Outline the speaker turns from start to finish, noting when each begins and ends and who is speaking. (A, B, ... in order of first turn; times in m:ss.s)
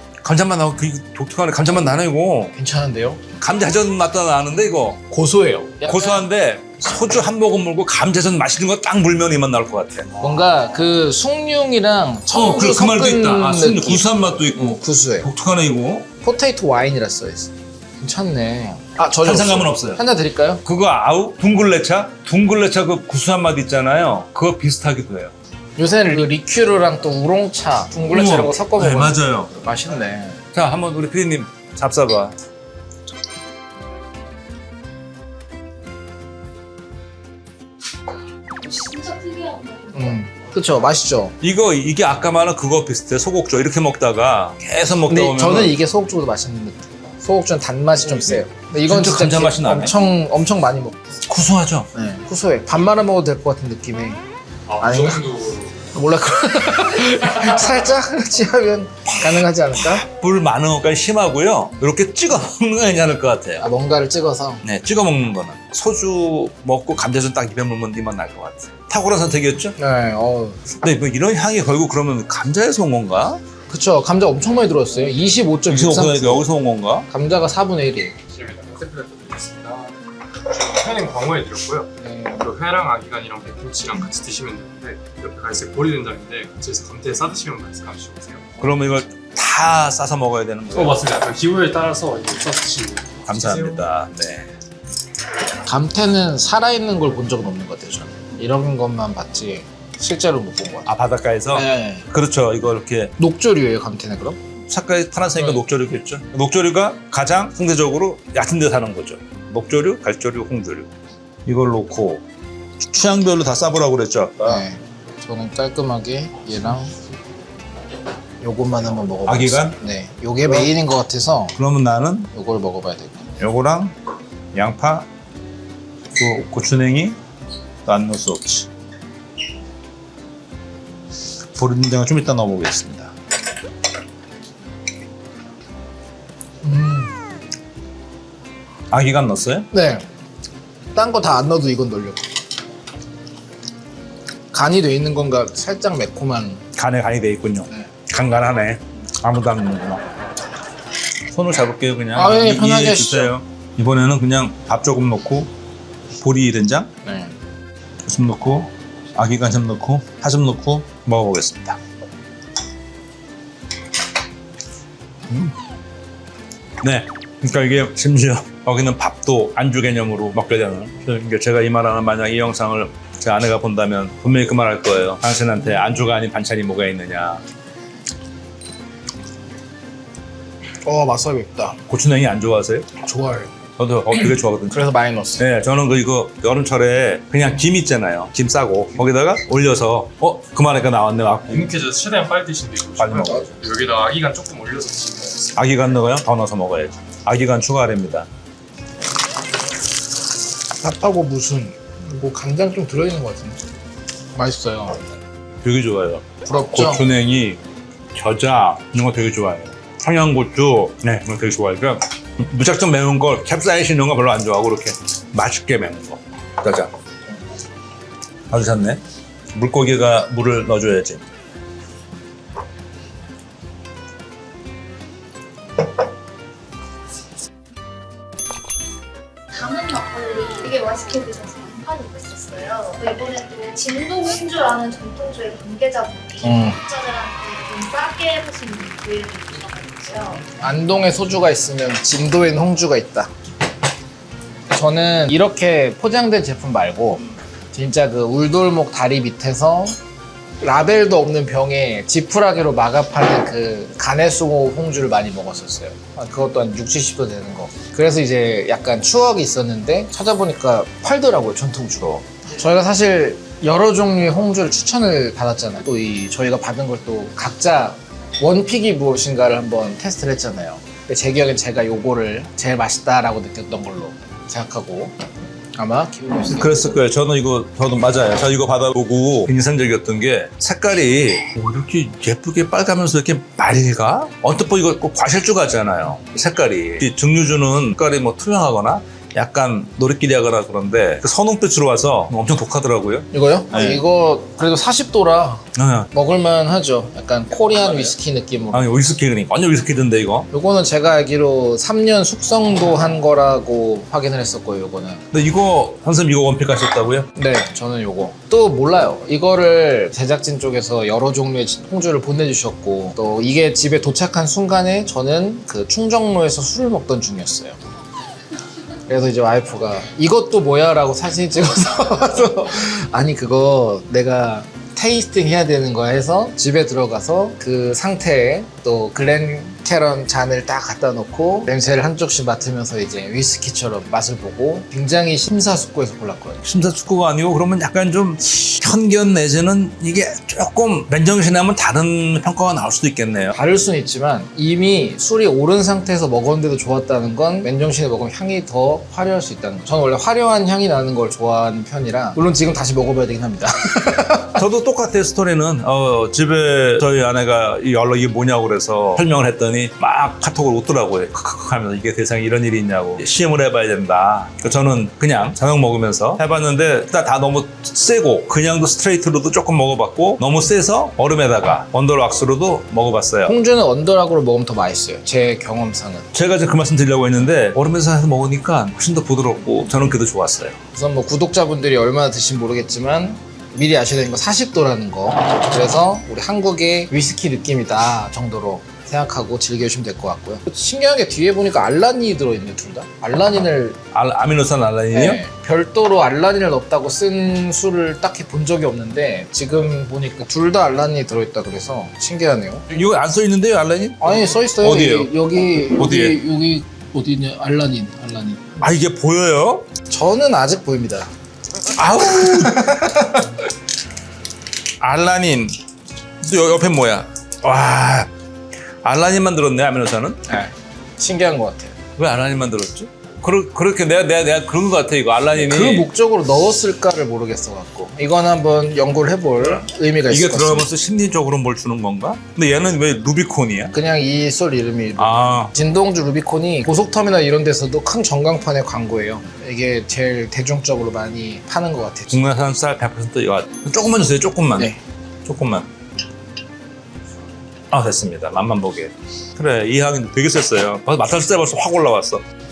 0:00.2-0:02.5 A
0:02.5-0:03.2 B
0:03.4-0:05.0 A
0:05.0-0:06.2 B
0:05.8-0:10.2 A
0:10.2-0:14.1 B
0:12.3-0:16.1 A
0:14.8-0:15.3 B
0:16.2-0:20.6 B
0:19.2-0:20.0 A
0:20.6-0:25.3 A
0:25.8-0:30.4 B
0:28.1-0:29.5 A
0:30.5-0:32.4 A
0:38.6-0:40.0 C
0:39.9-0:41.4 B
0:41.4-0:45.8 A
0:45.1-0:51.0 B
0:48.9-0:49.9 A
0:51.2-0:51.9 A
0:51.9-0:54.2 B
0:54.7-0:55.8 D
0:54.8-0:55.2 B
0:55.9-1:00.1 B
1:00.1-1:03.7 A
1:03.6-1:04.6 B
1:04.6-1:09.7 A
1:09.8-1:10.7 B
1:10.8-1:13.4 A
1:13.7-1:16.4 B
1:15.7-1:17.1 A
1:17.1-1:18.2 B
1:18.3-1:20.0 D
1:20.5-1:28.5 D
1:22.0-1:22.4 B
1:28.6-1:31.0 A
1:30.7-1:33.9 D
1:33.3-1:34.5 A
1:35.6-1:40.9 B
1:40.9-1:43.1 A
1:41.5-1:42.1 B
1:43.2-1:44.4 B
1:44.7-1:50.9 A
1:51.4-1:52.2 A
1:52.8-1:54.6 A
1:54.4-1:56.9 B
1:58.4-2:01.6 B
1:59.2-1:59.8 A
2:01.6-2:02.3 A
2:02.3-2:03.3 B
2:03.4-2:03.9 A
2:04.5-2:05.1 A
2:06.1-2:07.2 A
2:07.8-2:08.7 A
2:11.6-2:13.1 A
2:16.6-2:17.1 B
2:18.9-2:19.7 A
2:19.7-2:20.0 B
2:20.9-2:22.3 B
2:24.5-2:26.6 B
2:26.8-2:30.0 A
2:31.3-2:35.5 A
2:32.1-2:33.3 B
2:36.2-2:36.9 A
2:37.0-2:37.3 B
2:38.0-2:41.8 A
2:45.3-2:45.5 A
2:46.8-2:57.4 A
3:00.8-3:01.8 B
3:01.9-3:02.9 A
3:03.0-3:03.5 B
3:03.8-3:11.7 A
3:04.7-3:05.4 B
3:11.5-3:15.6 D
3:13.0-3:13.6 A
3:15.6-3:18.3 A
3:20.8-3:23.6 B
3:24.3-3:25.0 B
3:25.6-3:27.6 A
3:26.4-3:27.0 B
3:28.1-3:36.9 A
3:38.5-3:39.0 A
3:39.5-3:41.2 A
3:49.5-4:00.5 C
3:56.4-3:56.8 B
4:00.6-4:03.3 B
4:04.7-4:10.0 B
4:10.6-4:35.1 B
4:35.8-4:37.0 B
4:36.5-4:54.0 A
4:53.3-4:58.9 B
4:55.8-4:56.1 A
4:58.7-5:00.5 A
5:00.5-5:05.2 B
5:05.3-5:07.3 A
5:07.4-5:17.8 B
5:19.1-5:36.6 B
5:36.6-5:43.6 A
5:43.5-5:54.6 B
5:54.6-6:13.6 A
6:13.4-6:16.3 B
6:16.3-6:20.8 A
6:20.9-6:34.0 B
6:34.1-6:35.4 A
6:35.1-6:42.8 B
6:42.9-6:46.4 A
6:44.2-6:48.8 B
6:48.8-6:49.9 A
6:50.1-6:51.3 B
6:51.9-6:53.2 A
6:52.2-6:53.4 B
6:55.0-6:55.7 A
6:56.4-6:58.3 A
6:59.0-7:00.4 A
7:00.5-7:01.9 B
7:02.2-7:06.1 A
7:05.5-7:10.9 B
7:10.3-7:13.9 A
7:13.9-7:22.4 B
7:15.2-7:15.7 A
7:22.3-7:24.9 A
7:25.4-7:25.9 A
7:27.9-7:32.4 A